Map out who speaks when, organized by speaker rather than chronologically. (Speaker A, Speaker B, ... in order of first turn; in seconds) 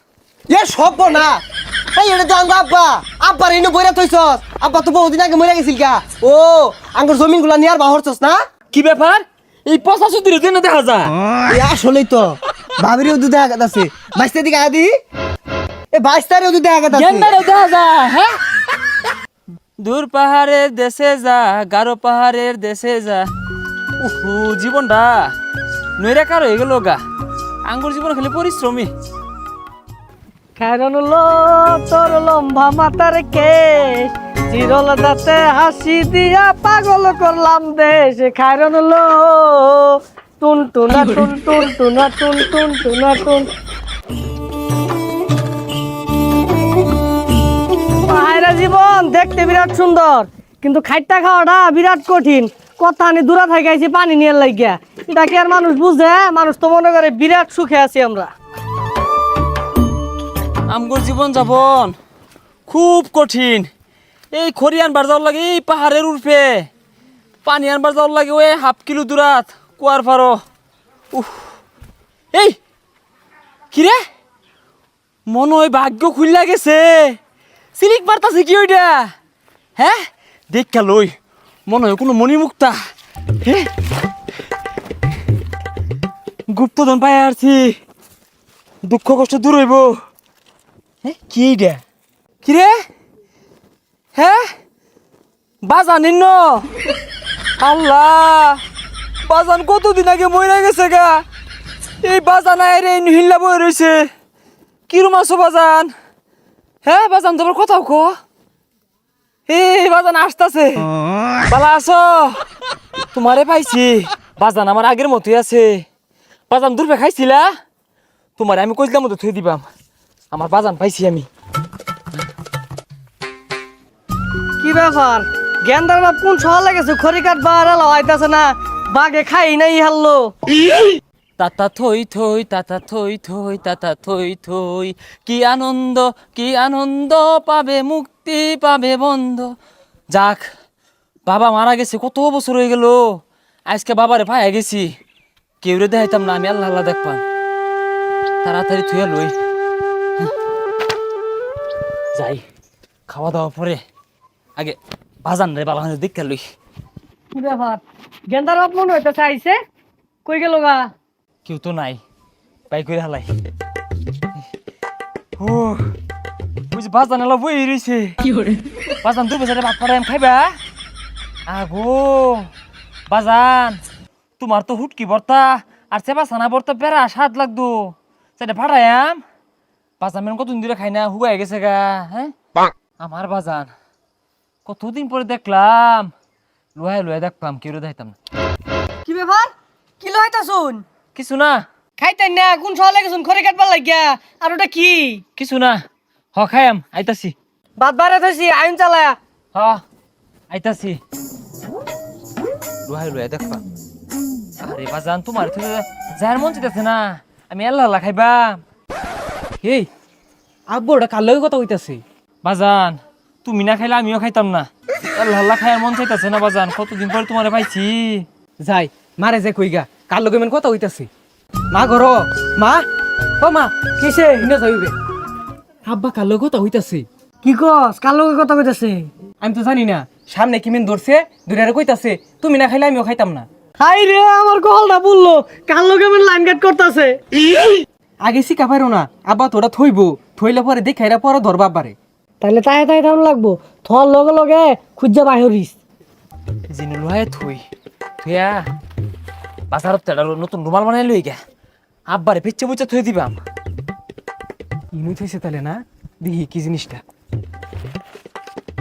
Speaker A: 0.5-1.4, 2.0-8.4, 11.5-14.9, 15.9-17.3
Speaker B: 8.7-11.2, 16.9-18.3, 19.8-23.3, 24.0-25.3, 26.0-27.0, 27.7-28.9, 60.7-62.0, 62.7-63.7, 64.3-66.7, 67.4-70.4, 71.1-71.5, 73.7-74.0, 75.3-77.2, 77.8-79.1, 79.8-81.2, 81.7-82.8, 83.4-83.7, 86.5-87.8, 88.8-90.0, 91.0-91.8, 92.4-92.8, 94.2-94.5, 95.6-96.6, 97.6-98.6, 99.3-101.2, 102.0-104.1, 104.9-105.9, 106.8-108.2, 109.5-110.9, 111.5-112.4, 113.1-115.8, 116.5-117.5, 118.4-119.7, 120.3-121.3, 131.4-139.6, 140.1-140.5, 141.3-144.9, 145.6-147.2, 148.4-149.3, 152.2-152.4, 153.1-153.8, 154.6-156.4, 161.4-162.0, 162.7-163.3, 165.4-165.9, 166.7-168.2, 169.0-170.5, 171.5-172.5, 173.1-173.8, 174.4-179.2, 180.0-182.3, 183.0-183.7, 184.7-186.1, 186.8-188.2, 191.2-191.6, 195.4-195.8, 196.3-197.3, 199.6-199.8, 200.5-201.0, 202.9-203.6, 204.6-208.6, 212.4-218.3, 246.7-247.6, 248.2-248.7, 249.7-251.4, 252.1-253.4
Speaker C: 30.6-43.5, 48.0-58.3, 124.6-130.3, 157.3-159.6, 160.2-160.9, 189.1-190.8, 192.0-195.2, 197.8-199.2, 227.4-229.1, 233.8-237.2, 242.4-245.8
Speaker D: 209.6-209.9, 210.7-212.0, 218.6-221.1, 221.7-222.9, 223.4-224.9, 225.9-227.1, 229.4-233.5, 238.2-242.0, 254.9-257.0